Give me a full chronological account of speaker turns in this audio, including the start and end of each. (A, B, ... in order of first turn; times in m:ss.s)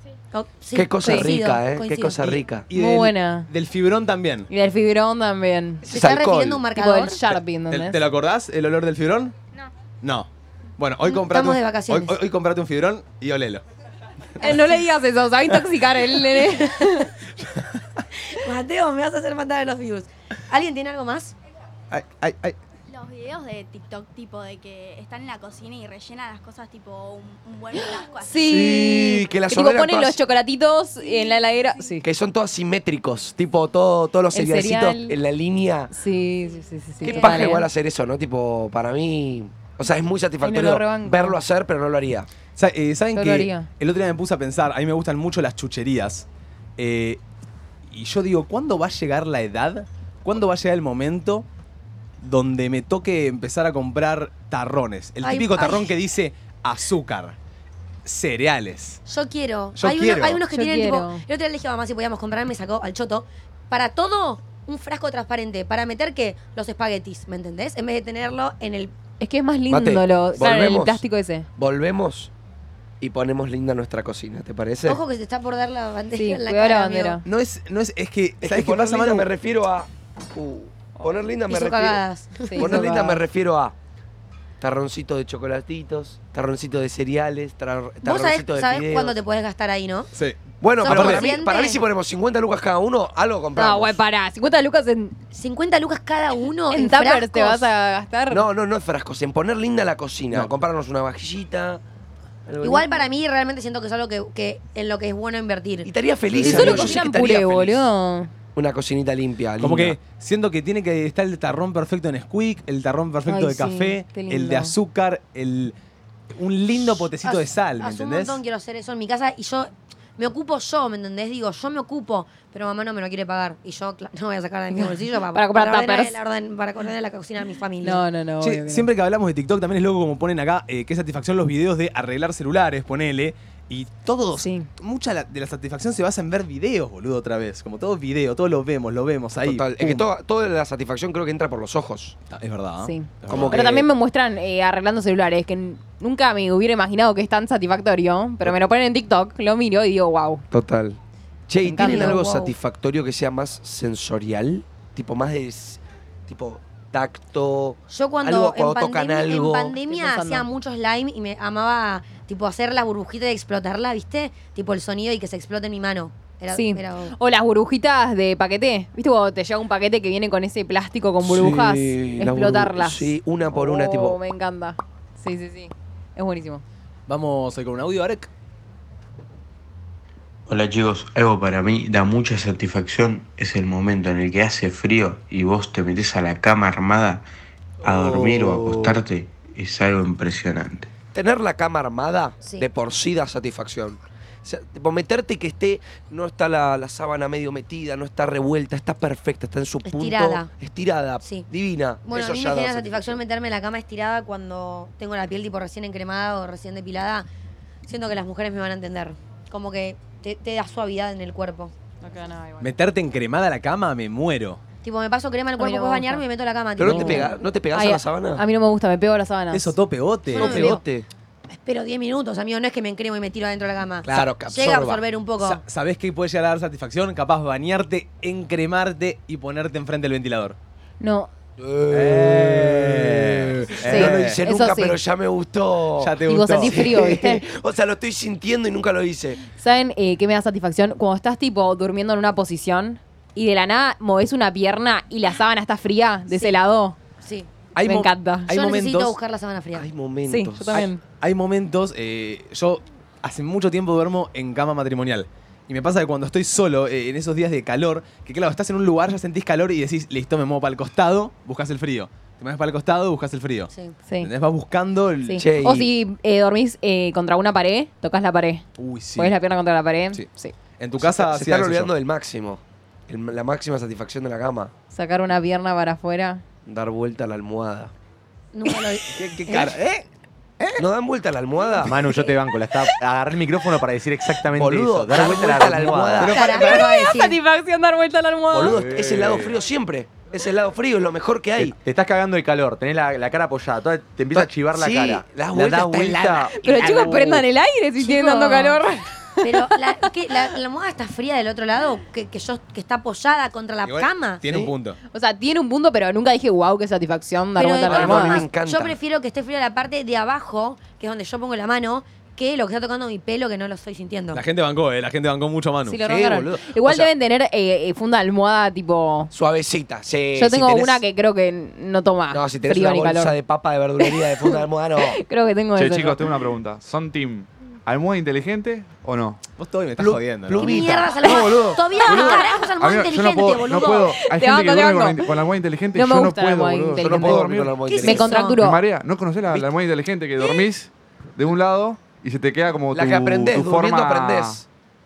0:00.3-0:02.4 A
0:00.7-0:02.7 B
0:01.0-0:01.3 C
0:02.7-0:04.5 D
0:02.7-0:03.5 C
0:04.5-0:05.9 C
0:05.9-0:06.6 B
0:05.9-0:07.2 A
0:06.7-0:08.0 C
0:07.7-0:09.3 D
0:10.0-0:13.6 D
0:11.0-0:12.1 A
0:14.4-0:17.1 C
0:18.2-0:21.3 A
0:21.9-0:22.6 D
0:22.9-0:28.4 E
0:28.2-0:32.0 C
0:28.3-0:30.2 B
0:32.0-0:35.9 B
0:34.3-0:35.2 C
0:35.9-0:37.6 C
0:37.0-0:37.6 A
0:37.0-0:42.3 B
0:40.4-0:41.4 C
0:42.6-0:46.2 D
0:43.1-0:43.7 C
0:46.8-0:47.2 D
0:47.9-0:51.4 D
0:52.2-0:57.4 D
0:55.2-0:55.9 A
0:58.0-0:59.0 D
0:59.1-1:08.9 A
0:59.7-1:00.4 D
1:00.5-1:01.2 C
1:09.2-1:11.5 C
1:09.7-1:11.0 B
1:11.6-1:12.3 B
1:13.0-1:15.0 B
1:14.8-1:17.2 A
1:16.2-1:17.2 C
1:17.2-1:19.3 D
1:18.4-1:23.7 B
1:21.5-1:22.9 A
1:22.5-1:23.2 C
1:24.6-1:29.2 B
1:28.0-1:30.1 A
1:30.2-1:31.3 D
1:30.6-1:34.0 B
1:30.8-1:31.8 A
1:33.6-1:35.2 C
1:35.3-1:37.7 A
1:36.7-1:38.4 C
1:38.3-1:41.8 B
1:42.4-1:43.0 B
1:42.6-1:45.9 A
1:45.8-1:47.9 B
1:46.3-1:46.9 D
1:46.4-1:48.3 C
1:48.6-1:50.0 B
1:49.6-1:55.7 D
1:53.3-1:54.7 C
1:56.3-1:58.4 D
1:57.2-2:08.0 A
2:04.7-2:06.2 C
2:07.8-2:08.9 C
2:08.4-2:20.0 D
2:14.4-2:14.7 C
2:19.4-2:22.2 B
2:22.3-2:23.9 D
2:22.8-2:30.4 C
2:23.3-2:23.8 B
2:30.5-2:39.7 B
2:31.6-2:32.5 C
2:31.8-2:32.4 A
2:37.9-2:47.1 A
2:39.9-2:40.4 C
2:46.5-2:56.6 C
2:51.2-2:54.2 B
2:57.1-2:58.3 D
3:00.5-3:07.3 F
3:07.8-3:10.9 F
3:07.8-3:08.9 B
3:11.1-3:23.2 B
3:19.9-3:20.5 A
3:22.0-3:27.3 A
3:27.9-3:31.7 A
3:32.0-3:32.7 C
3:32.6-3:34.6 D
3:34.8-3:37.3 A
3:35.6-3:36.2 C
3:36.8-3:38.4 B
3:36.8-3:39.7 C
3:39.5-3:40.8 D
3:40.3-3:41.1 B
3:40.3-3:40.8 A
3:41.5-3:45.6 A
3:44.0-3:45.0 B
3:45.4-3:50.6 D
3:51.0-3:51.3 C
3:51.6-3:59.4 B
3:51.9-3:54.4 D
3:53.8-3:55.0 C
3:56.0-3:57.0 D
3:56.3-3:57.4 C
3:59.6-4:07.0 C
4:06.3-4:06.6 A
4:07.2-4:07.5 A
4:07.7-4:09.2 D
4:07.8-4:08.5 C
4:08.5-4:09.9 A
4:09.7-4:10.9 B
4:10.3-4:11.0 C
4:10.7-4:25.7 D
4:25.3-4:28.6 C
4:25.4-4:25.9 B
4:28.8-4:29.3 D
4:29.2-4:30.5 C
4:30.8-4:31.9 D
4:31.0-4:34.7 B
4:34.9-4:36.4 C
4:36.6-4:37.9 B
4:38.5-4:39.7 A
4:39.1-4:40.0 D
4:40.8-4:42.0 B
4:41.8-4:46.3 G
4:44.5-4:46.4 B
4:46.2-4:46.9 D
4:46.3-4:47.4 A
4:46.3-4:48.8 C
4:48.5-4:49.5 G
4:48.6-4:51.8 B
4:51.6-4:57.4 G
4:54.3-4:56.5 B
4:56.6-5:00.1 C
4:56.7-4:57.2 D
4:58.0-4:58.8 A
4:59.4-5:04.6 A
5:03.8-5:05.0 D
5:05.1-5:08.4 C
5:07.6-5:14.4 A
5:07.8-5:09.0 B
5:14.3-5:16.0 D
5:15.9-5:19.3 C
5:16.0-5:17.1 B
5:19.3-5:21.0 B
5:20.4-5:23.4 C
5:22.3-5:25.2 B
5:24.0-5:26.3 C
5:25.8-5:29.4 H
5:29.6-5:30.8 D
5:30.0-5:32.4 B
5:30.5-5:34.2 A
5:31.2-5:37.8 H
5:34.3-5:35.3 C
5:35.9-5:37.4 C
5:37.0-5:38.4 B
5:37.8-5:38.6 A
5:38.0-5:38.8 C
5:38.5-5:44.6 H
5:42.9-5:44.6 B